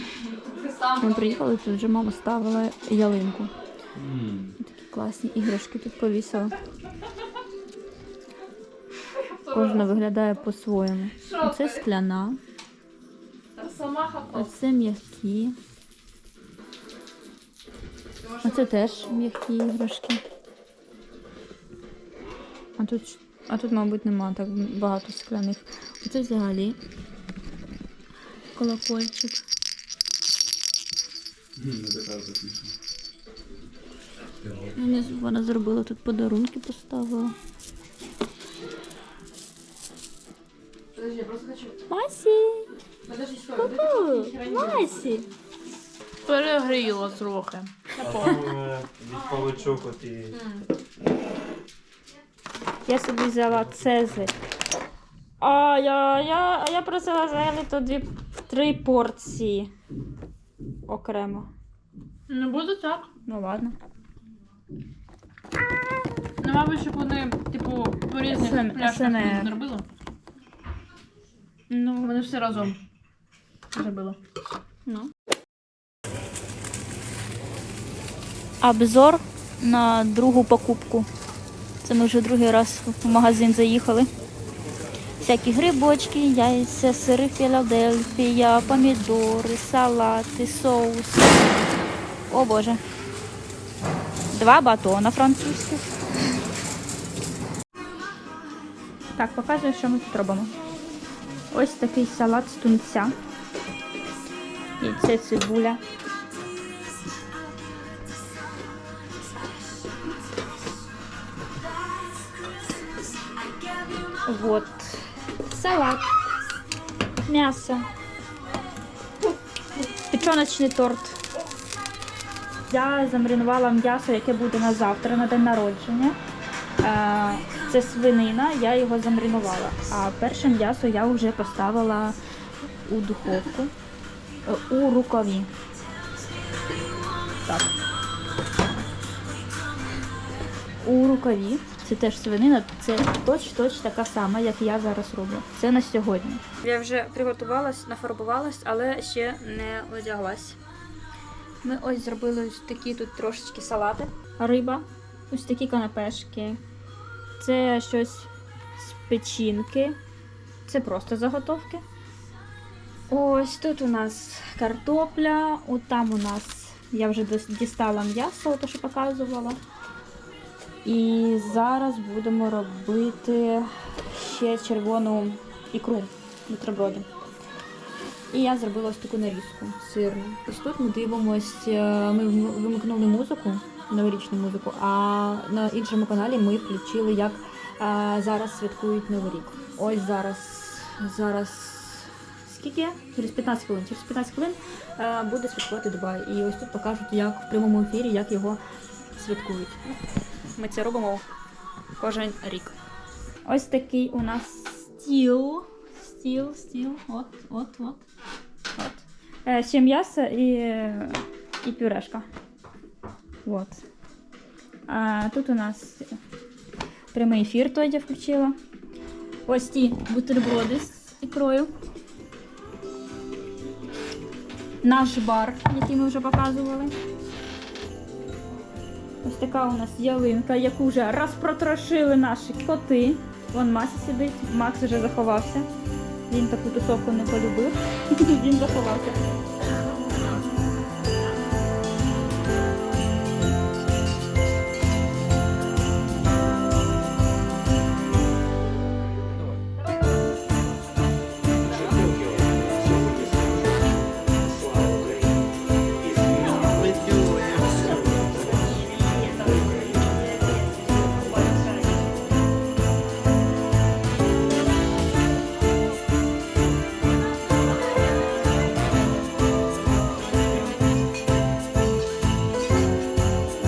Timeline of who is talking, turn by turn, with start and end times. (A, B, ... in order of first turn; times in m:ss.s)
0:00.2-0:01.4 A
0:01.0-0:03.5 B
0:03.9-0:04.6 C
0:04.6-0:06.5 B
0:09.2-0:09.9 A
0:09.5-0:12.4 B
0:11.2-0:11.8 A
0:13.6-0:14.5 A
0:14.3-0:15.6 B
0:18.2-0:19.2 A
0:18.4-0:20.2 B
0:22.8-0:26.8 B
0:28.5-0:29.4 B
0:31.6-0:32.7 C
0:34.4-0:34.8 C
0:34.8-0:37.3 B
0:40.9-0:41.8 A
0:41.9-0:42.7 B
0:43.0-0:45.1 A
0:43.6-0:45.3 B
0:46.2-0:48.4 A
0:48.0-0:50.4 D
0:50.3-0:50.6 A
0:52.8-0:54.3 B
0:55.4-0:59.7 B
1:00.8-1:01.5 B
1:02.3-1:03.1 A
1:03.2-1:03.7 B
1:06.4-1:09.8 A
1:08.2-1:09.5 B
1:11.7-1:12.2 B
1:12.0-1:12.8 A
1:13.7-1:14.2 A
1:18.6-1:21.1 B
1:21.8-1:24.1 B
1:25.2-1:31.5 B
1:32.3-1:32.8 B
1:34.3-1:35.9 B
1:39.1-1:40.5 B
1:41.5-1:43.1 B
1:44.8-1:45.8 B
1:54.2-1:56.1 B
1:57.2-1:57.9 B
2:00.1-2:01.2 B
2:02.7-2:06.2 B
2:06.8-2:12.2 B
2:12.8-2:13.7 B
2:14.4-2:15.5 B
2:17.4-2:17.7 B
2:20.8-2:30.6 B
2:31.6-2:36.6 B
2:37.4-2:40.0 B
2:40.6-2:41.8 B
2:43.1-2:49.6 B
2:50.8-2:57.1 B
2:58.3-3:18.6 B
3:19.1-3:20.0 B
3:20.5-3:21.2 B
3:22.0-3:22.8 B
3:23.4-3:28.0 B
3:28.7-3:32.2 B
3:33.4-3:33.8 B
3:34.9-3:36.2 B
3:37.1-3:38.5 B
3:39.4-3:41.7 B
3:44.8-3:46.9 B
3:49.2-3:55.7 B
3:56.3-3:59.3 B
4:16.3-4:22.3 B